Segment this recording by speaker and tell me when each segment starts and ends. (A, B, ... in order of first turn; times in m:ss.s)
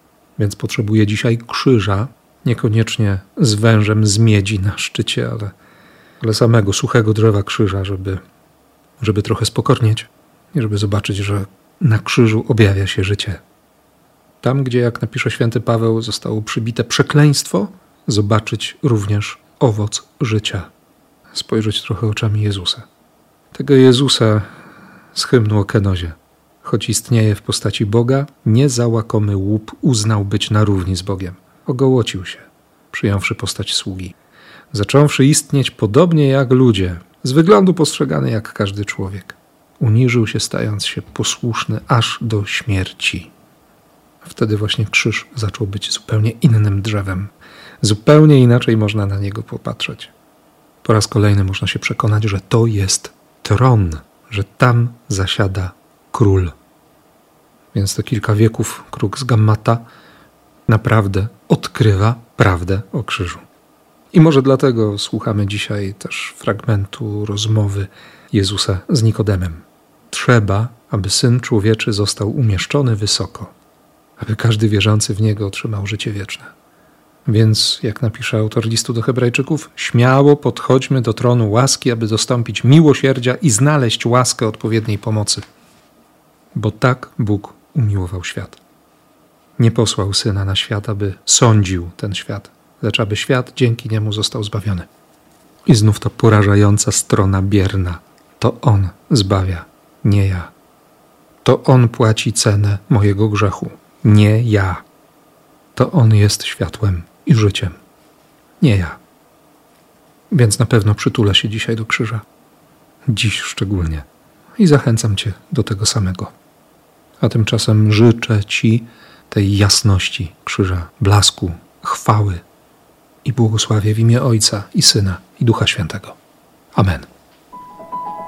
0:00.4-0:05.5 A
0:06.2-0:08.2 A
0:09.0-0:13.4 A
0:14.4-0:20.7 A
0:21.3-0:22.9 A
0:23.5-0:24.5 A
0:25.1-0:34.2 A
0:34.7-0:43.3 A
0:44.2-0:50.1 A
0:50.8-0:56.5 A
0:57.7-0:59.8 A
1:00.7-1:03.4 A
1:04.1-1:13.5 A
1:14.2-1:16.5 A
1:17.2-1:25.5 A
1:26.5-1:28.6 A
1:29.6-1:34.9 A
1:35.7-1:40.5 A
1:41.4-1:44.8 A
1:45.8-1:47.8 A
1:48.6-1:49.0 A
1:50.3-1:52.2 A
1:53.1-1:56.3 A
1:57.2-2:02.4 A
2:03.2-2:06.2 A
2:06.8-2:07.1 A